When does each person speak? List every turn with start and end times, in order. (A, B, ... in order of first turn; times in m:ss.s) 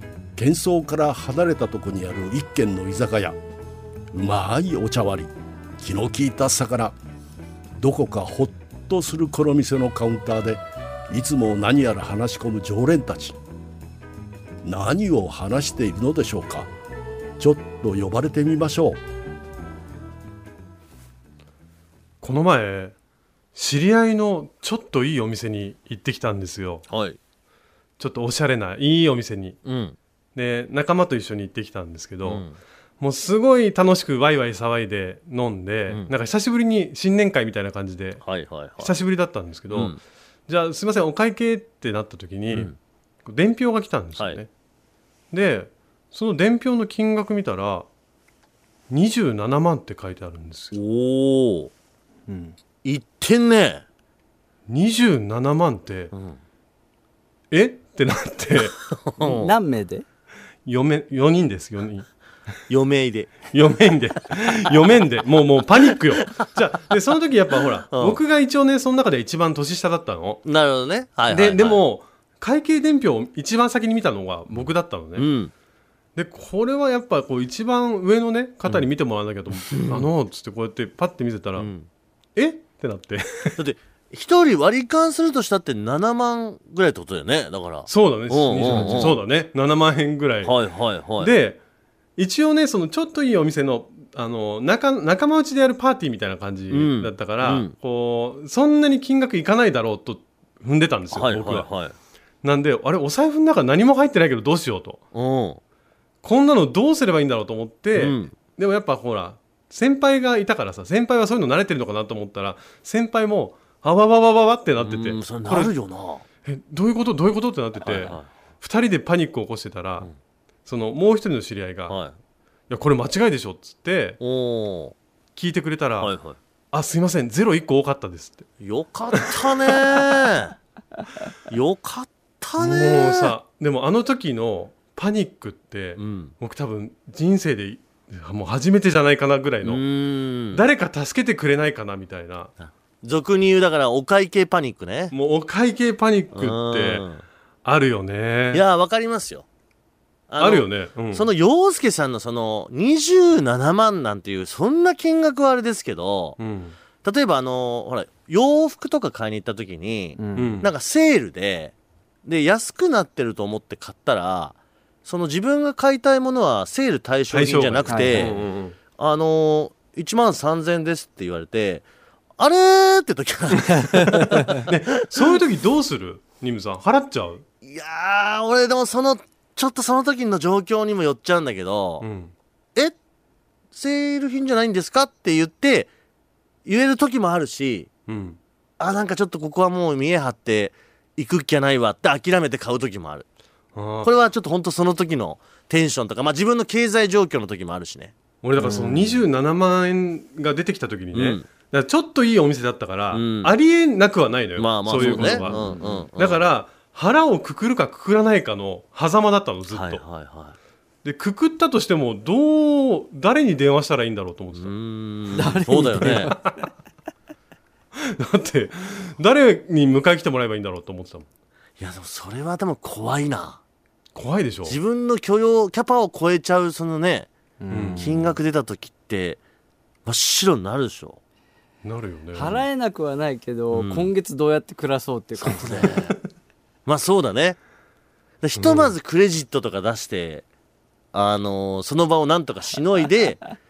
0:00.4-0:03.4 A
0:04.1-0:07.0 A
0:07.8-0:13.4 A
0:14.6-0:16.7 A
0:17.4-0:19.0 A
0:22.2-0:22.9 B
0:23.5-0:26.8 B
0:26.9-0:27.2 C
0:28.0-0:29.6 B
0:29.6-0:30.0 C
0:30.3-0:32.4 B
0:32.2-0:32.6 C
0:33.0-0:38.2 B
0:38.2-0:38.9 C
0:38.8-0:39.9 B
0:39.7-0:40.0 C
0:40.5-0:42.7 B
0:43.2-0:44.5 B
0:45.3-0:47.8 B
0:48.9-0:50.8 B
0:50.7-0:51.7 C
0:52.3-0:52.6 D
0:52.8-0:53.8 C
0:54.7-0:56.1 B
0:56.1-0:56.4 C
0:57.5-0:58.8 B
0:59.0-0:59.5 C
0:59.2-1:00.0 D
1:00.6-1:02.1 B
1:02.7-1:03.5 C
1:03.5-1:10.4 B
1:07.9-1:08.2 C
1:10.4-1:11.8 C
1:11.3-1:15.3 B
1:15.2-1:15.5 C
1:16.2-1:21.7 B
1:19.7-1:20.1 C
1:21.6-1:21.9 C
1:22.4-1:23.6 B
1:23.6-1:29.2 C
1:27.9-1:30.6 B
1:28.7-1:29.0 D
1:30.4-1:31.3 C
1:31.2-1:31.6 B
1:32.2-1:41.7 B
1:36.7-1:37.7 C
1:41.1-1:41.9 C
1:42.4-1:45.0 B
1:45.1-1:45.6 C
1:46.2-1:55.7 B
1:48.0-1:48.3 C
1:54.8-1:56.2 C
1:56.4-2:00.1 B
1:57.8-1:58.3 C
2:00.6-2:02.0 B
2:02.7-2:04.2 B
2:04.2-2:04.9 C
2:05.4-2:06.1 B
2:06.0-2:06.4 C
2:06.7-2:08.5 B
2:08.6-2:10.5 C
2:11.5-2:13.3 C
2:12.6-2:19.8 B
2:16.0-2:16.3 C
2:19.6-2:20.6 C
2:20.5-2:22.5 B
2:22.6-2:25.1 C
2:25.1-2:27.0 B
2:26.3-2:27.2 C
2:27.6-2:28.6 B
2:28.5-2:29.4 C
2:30.3-2:36.4 C
2:30.4-2:31.3 B
2:36.4-2:36.8 B
2:37.0-2:41.7 C
2:40.2-2:40.6 D
2:40.3-2:40.7 B
2:42.2-2:48.4 C
2:47.3-2:48.8 B
2:47.9-2:48.4 D
2:48.9-2:51.8 C
2:52.4-2:55.4 C
2:54.2-2:57.4 B
2:57.6-3:02.1 C
3:02.0-3:02.3 B
3:03.7-3:05.9 C
3:06.6-3:07.9 C
3:08.1-3:08.4 B
3:08.8-3:13.2 C
3:13.7-3:14.1 B
3:14.0-3:18.1 C
3:18.4-3:25.6 B
3:18.6-3:19.2 D
3:21.1-3:21.4 C
3:23.1-3:23.5 C
3:24.6-3:26.4 C
3:24.9-3:26.1 D
3:26.2-3:30.0 B
3:29.7-3:30.5 C
3:31.0-3:34.7 B
3:34.5-3:36.3 C
3:35.3-3:36.6 D
3:36.0-3:36.6 B
3:38.0-3:41.2 B
3:41.8-3:43.6 C
3:44.1-3:44.8 B
3:44.6-3:47.3 C
3:47.6-3:48.3 D
3:47.7-3:48.1 B
3:48.0-3:49.4 C
3:50.0-3:51.2 C
3:51.8-3:52.6 B
3:52.3-3:55.9 D
3:53.7-3:54.1 C
3:55.4-3:56.2 C
3:56.8-3:57.6 C
3:58.4-4:00.4 C
3:58.6-3:58.9 B
4:01.1-4:03.5 C